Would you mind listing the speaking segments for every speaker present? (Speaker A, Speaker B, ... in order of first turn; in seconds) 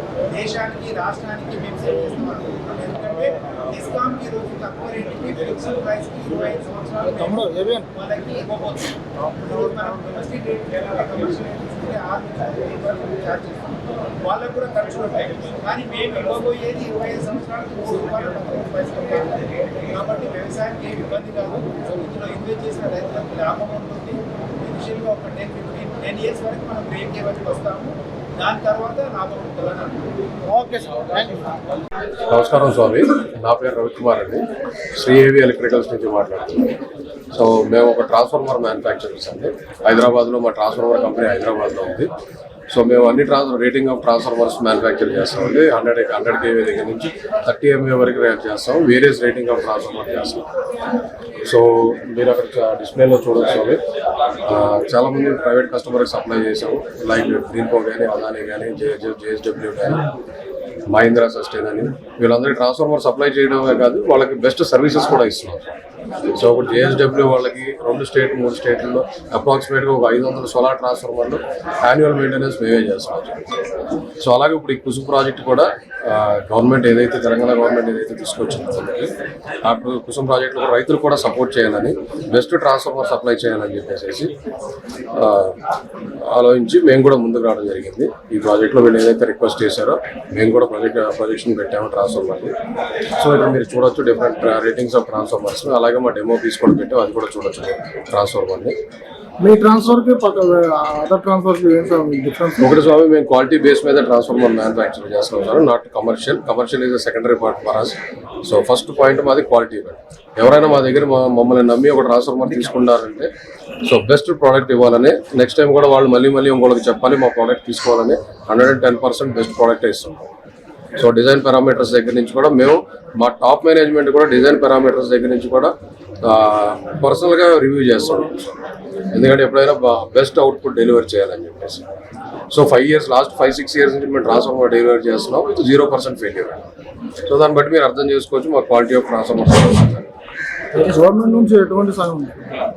Speaker A: 0.3-30.1
Speaker B: 7.3-7.8, 30.5-31.5, 99.4-102.7, 140.7-142.3
Speaker C: 32.3-36.8, 37.3-42.1, 42.7-50.5, 51.4-53.8, 54.4-60.1, 60.9-65.7, 66.3-73.7, 74.2-79.1, 79.6-84.3, 85.1-85.6, 86.3-92.5, 93.1-98.8, 102.6-113.3, 113.8-120.3, 121.0-131.9, 132.5-136.6, 137.2-140.1